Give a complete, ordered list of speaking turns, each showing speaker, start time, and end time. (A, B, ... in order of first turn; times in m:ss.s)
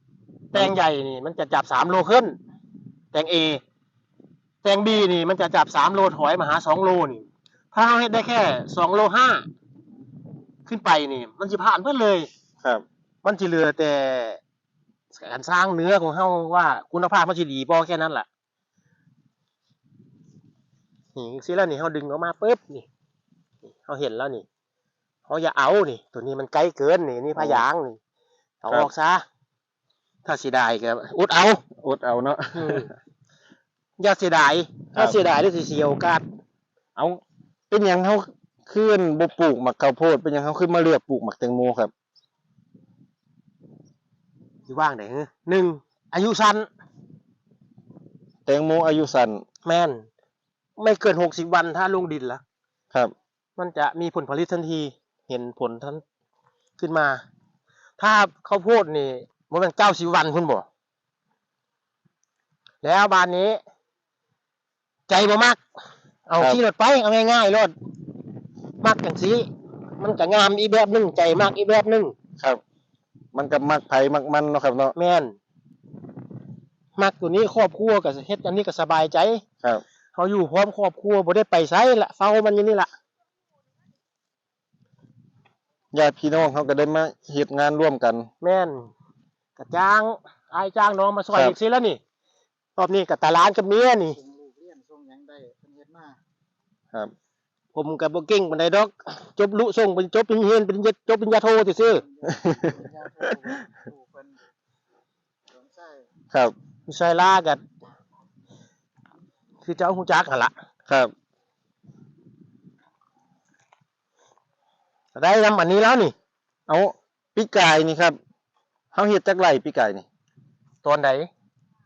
0:00.5-0:02.4 A
0:03.1-0:03.6 A
0:04.6-0:09.4 A
0:10.7-0:12.3 A
0:13.2-0:14.4 A
0:15.1-0:18.2 A
0:21.1-0:22.8 A
0:23.8-0:24.4 A
0:25.3-0:28.0 A
0:27.4-0:27.6 B
0:28.6-0:29.2 A
0:30.2-0:31.6 A
0:31.8-0:32.9 B
0:32.5-0:32.9 A
0:34.0-0:36.2 A
0:37.0-0:41.9 B
0:44.7-0:46.7 A
0:48.4-0:49.4 B
0:49.6-0:50.1 A
0:50.8-0:52.4 A
0:53.6-0:56.0 A
0:56.8-0:57.2 A
0:58.0-1:00.6 A
1:02.8-1:03.6 A
1:05.1-1:05.6 A
1:06.3-1:07.7 A
1:08.8-1:12.1 A
1:13.3-1:14.9 B
1:14.9-1:15.3 A
1:17.0-1:19.4 A
1:20.2-1:22.9 A
1:25.9-1:28.3 B
1:28.4-1:28.9 A
1:29.6-1:32.0 A
1:32.8-1:34.2 A
1:34.2-1:36.2 C
1:37.7-1:42.0 A
1:42.0-1:44.4 C
1:42.2-1:43.5 B
1:45.5-1:46.0 C
1:46.9-1:47.6 A
1:49.6-1:50.5 A
1:50.9-1:51.1 B
1:55.2-1:56.1 A
1:56.7-1:58.2 B
1:58.9-2:00.0 B
2:00.8-2:01.3 A